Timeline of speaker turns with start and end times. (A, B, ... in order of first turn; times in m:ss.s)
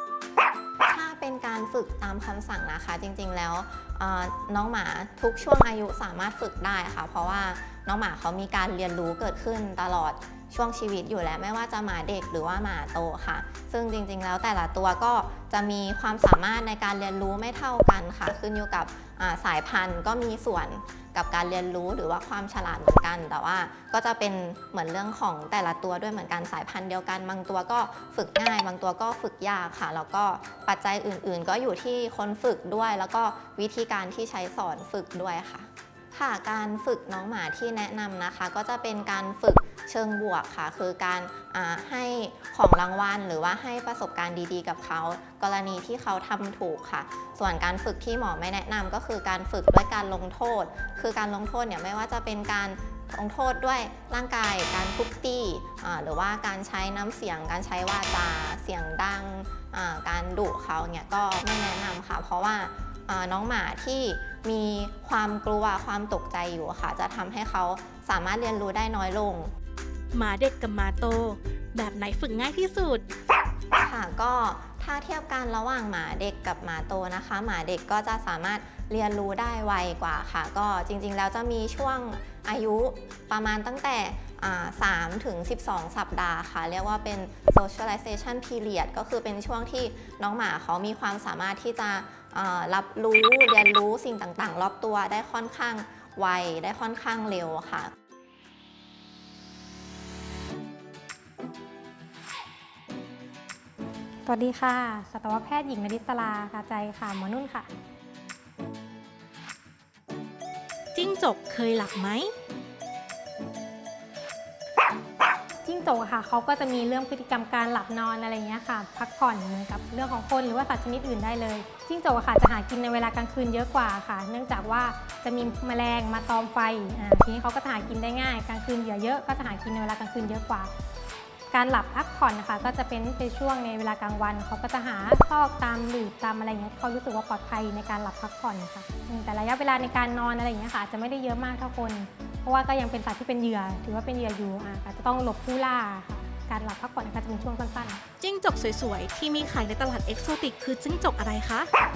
0:00.9-1:09.5 A
1:10.1-1:13.1 B
1:13.8-1:37.9 A
1:44.2-1:47.7 C
1:50.9-1:52.3 B
1:55.6-2:10.7 C
2:11.5-2:28.0 C
2:28.2-2:31.7 B